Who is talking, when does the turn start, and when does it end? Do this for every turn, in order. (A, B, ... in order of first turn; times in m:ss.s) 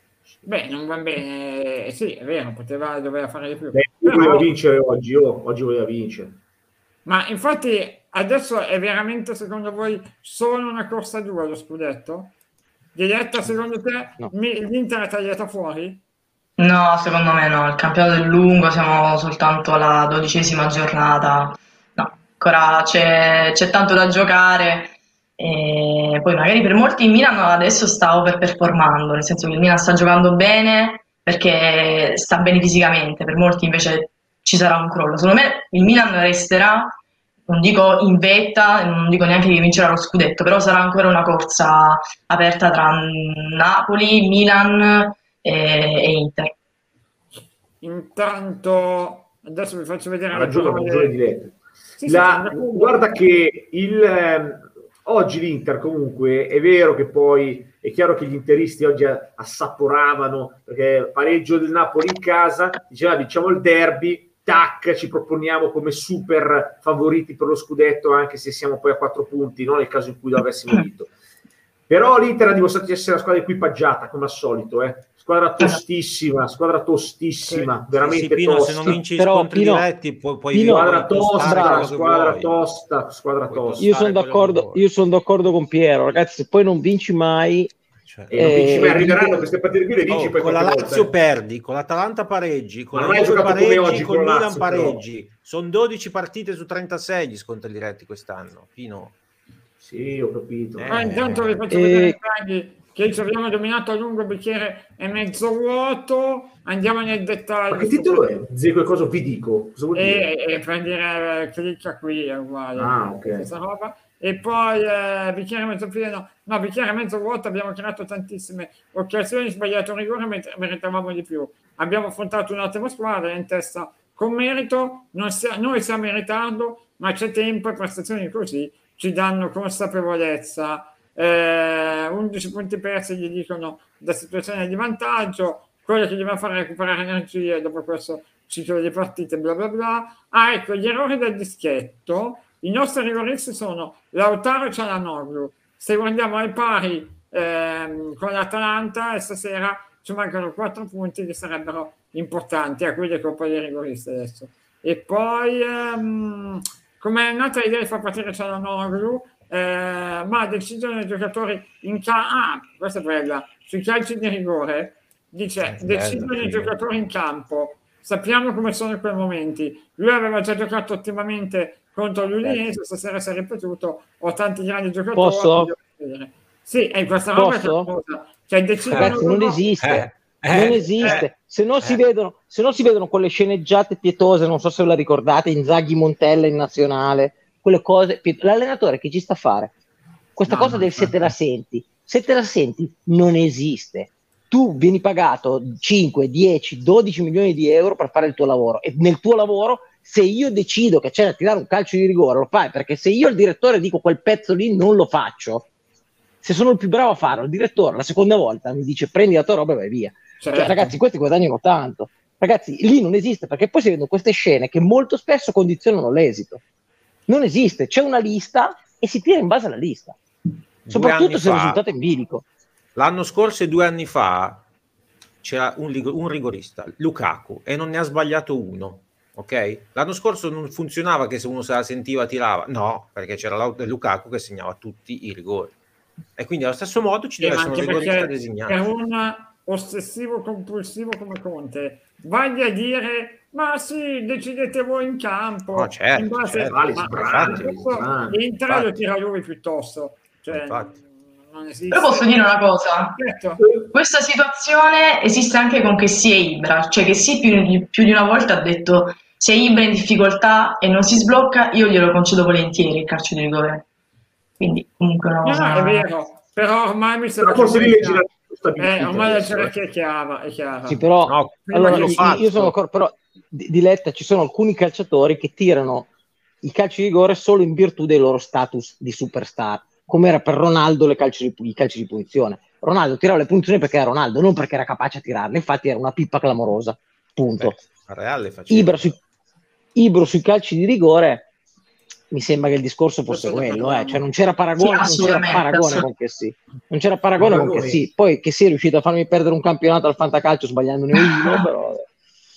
0:00.4-0:04.5 A
0:03.7-0:06.4 B
0:07.0-0:12.3 A
0:12.9-0:16.0 A
0:16.6-0:46.5 C
0:47.8-0:51.2 A
0:50.3-1:11.1 B
0:52.0-0:53.2 A
1:11.9-1:19.0 B
1:17.4-1:17.7 A
1:18.0-1:22.5 D
1:18.8-1:19.8 E
1:20.5-1:21.9 E
1:20.6-1:23.9 B
1:23.5-1:24.8 D
1:23.8-1:27.7 E
1:28.0-1:29.0 D
1:28.3-1:31.1 B
1:28.4-1:29.4 E
1:30.1-1:39.1 D
1:32.9-1:35.0 B
1:39.8-1:41.0 B
1:40.8-1:41.6 D
1:40.9-1:48.3 A
1:41.7-1:42.2 E
1:47.7-1:50.3 B
1:49.9-2:59.7 A
1:52.8-1:53.5 B
2:45.7-2:46.8 D
2:55.1-2:55.7 E
2:57.3-2:57.9 E
2:58.9-2:59.2 D
2:58.9-3:09.7 E
2:59.8-3:01.3 D
3:01.0-3:01.2 A
3:10.3-3:25.7 E
3:10.5-3:11.2 A
3:26.4-3:36.6 E
3:30.4-3:31.0 A
3:37.3-3:40.2 E
3:40.8-3:41.8 D
3:40.9-3:42.4 E
3:43.0-3:44.6 D
3:45.4-3:55.7 D
3:56.4-3:58.8 D
3:57.4-4:12.3 A
4:05.7-4:08.1 D
4:06.7-4:08.4 B
4:10.5-4:10.9 D
4:11.9-4:13.2 C
4:13.2-4:13.6 A
4:13.6-4:13.9 B
4:13.9-4:23.8 C
4:24.6-4:26.1 C
4:25.4-4:28.2 A
4:27.4-4:29.7 B
4:28.8-4:31.0 A
4:30.9-4:36.1 E
4:31.2-4:32.7 D
4:31.7-4:32.4 A
4:36.6-4:47.8 E
4:47.6-4:49.2 D
4:48.7-4:49.2 E
4:50.0-4:51.5 E
4:52.3-5:02.1 E
4:53.3-4:54.2 A
4:54.8-4:56.0 C
4:57.4-4:58.0 B
5:01.2-5:01.6 C